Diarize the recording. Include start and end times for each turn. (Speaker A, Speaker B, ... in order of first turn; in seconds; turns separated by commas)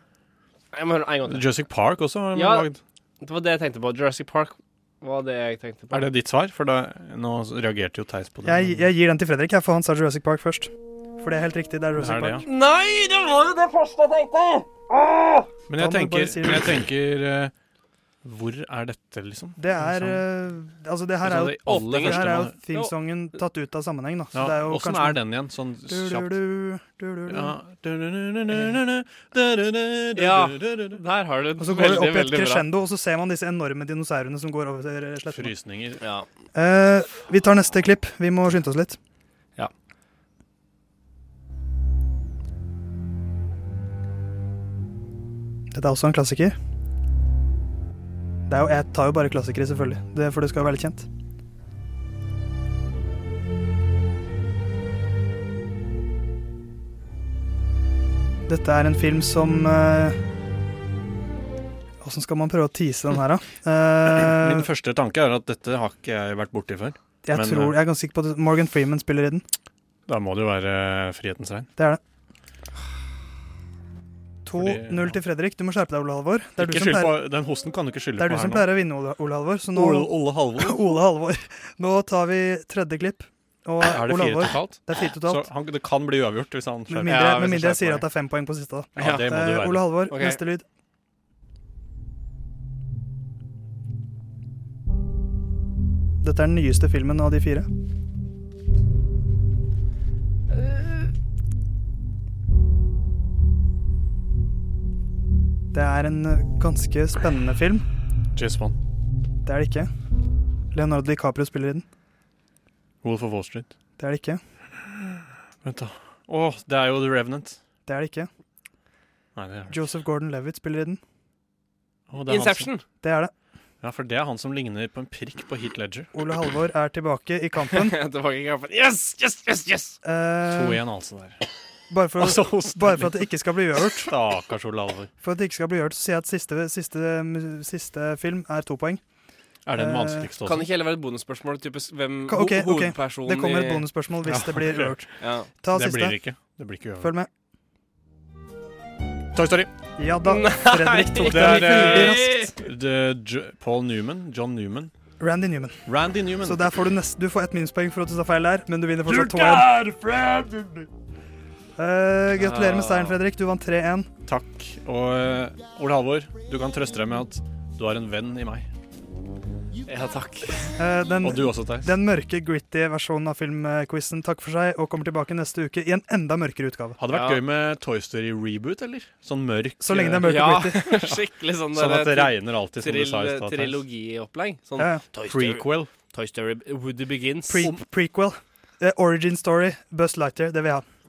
Speaker A: 0.7-1.5, Speaker B: 1.3-2.8, Speaker A: 2.3-6.1, Speaker B: 5.9-8.9, Speaker C: 8.4-12.4, Speaker B: 12.0-12.5, Speaker A: 12.4-15.5, Speaker B: 15.7-17.5, Speaker C: 15.8-16.8, Speaker B: 18.2-20.2, Speaker C: 19.6-25.2, Speaker B: 21.2-22.6, Speaker A: 21.7-22.9, Speaker B: 24.3-26.4, Speaker C: 25.9-27.6, Speaker B: 27.3-31.0, Speaker A: 30.1-32.6, Speaker C: 31.6-35.5, Speaker B: 35.3-36.0, Speaker A: 36.0-36.3, Speaker C: 36.5-39.0, Speaker C: 45.7-46.6, Speaker C: 48.5-51.1, Speaker C: 58.5-60.2, Speaker C: 62.0-64.7, Speaker B: 64.2-67.8, Speaker C: 67.2-69.5, Speaker B: 70.1-71.7, Speaker C: 74.5-77.2, Speaker B: 74.5-75.2, Speaker B: 76.6-78.7, Speaker C: 78.2-85.5, Speaker B: 79.7-81.0, Speaker B: 83.8-87.4, Speaker C: 86.9-90.7, Speaker A: 87.1-88.0, Speaker B: 89.0-89.9, Speaker A: 89.0-89.3, Speaker A: 90.1-90.4, Speaker C: 96.2-97.7, Speaker C: 105.7-107.8, Speaker B: 108.3-108.8, Speaker C: 109.5-109.9, Speaker C: 110.7-111.9, Speaker B: 113.0-113.7, Speaker C: 114.0-114.4, Speaker B: 115.6-117.6, Speaker C: 117.9-118.3, Speaker B: 119.4-119.9, Speaker C: 119.7-121.0, Speaker B: 122.1-122.7, Speaker A: 122.3-122.9, Speaker C: 123.0-123.3, Speaker B: 123.8-126.1, Speaker C: 126.1-128.0, Speaker A: 127.7-130.0, Speaker C: 130.0-130.8, Speaker B: 130.5-131.4, Speaker C: 131.9-134.1, Speaker B: 132.2-133.2, Speaker B: 134.0-135.1, Speaker C: 135.2-139.0, Speaker B: 139.7-140.7, Speaker C: 139.8-140.3, Speaker A: 140.4-143.9, Speaker C: 142.3-146.2, Speaker B: 144.2-145.1, Speaker A: 145.2-145.5, Speaker B: 145.7-147.1, Speaker C: 147.0-147.3, Speaker B: 149.3-149.7, Speaker C: 150.0-152.5, Speaker A: 150.2-152.5, Speaker B: 151.2-154.9, Speaker C: 155.2-155.8, Speaker B: 155.9-156.7, Speaker C: 156.4-159.9, Speaker B: 159.1-159.7, Speaker A: 159.8-160.6, Speaker C: 161.8-164.1, Speaker A: 162.4-163.2, Speaker B: 164.3-168.7, Speaker A: 169.9-170.8, Speaker C: 170.8-177.0, Speaker B: 171.2-171.9, Speaker B: 177.0-181.2, Speaker A: 177.1-177.4, Speaker C: 179.8-180.8, Speaker A: 180.2-187.7, Speaker B: 181.7-183.8, Speaker C: 184.8-185.0, Speaker B: 185.2-185.9, Speaker C: 187.5-190.8